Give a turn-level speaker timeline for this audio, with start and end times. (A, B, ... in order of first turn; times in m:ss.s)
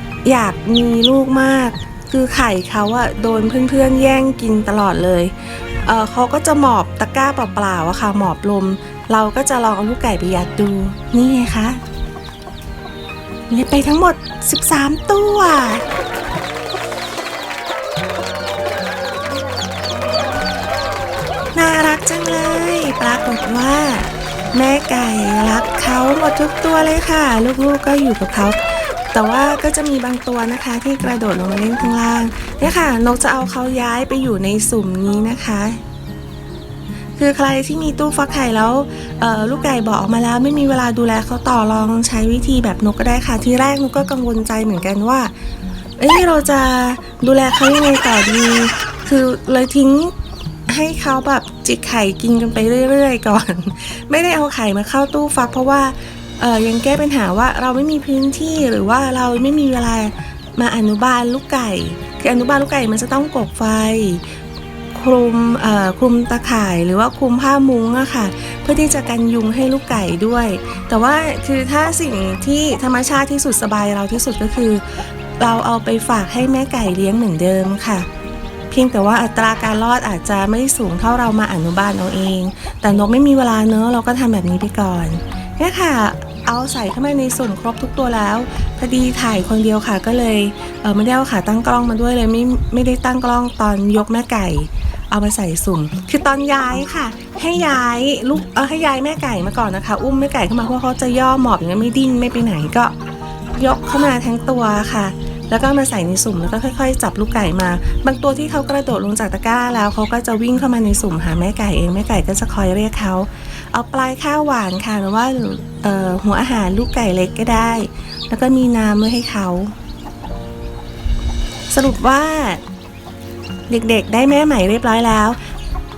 0:00.3-0:11.8 A
0:13.5-0:15.9 A
0:21.6-0:35.8 A
0:37.2-0:45.3 A
0:46.0-0:50.1 A
0:50.7-1:04.3 A
1:04.9-1:18.1 A
1:18.7-1:43.0 A
1:43.6-1:59.7 A
2:01.7-2:02.6 A
2:03.7-2:05.4 A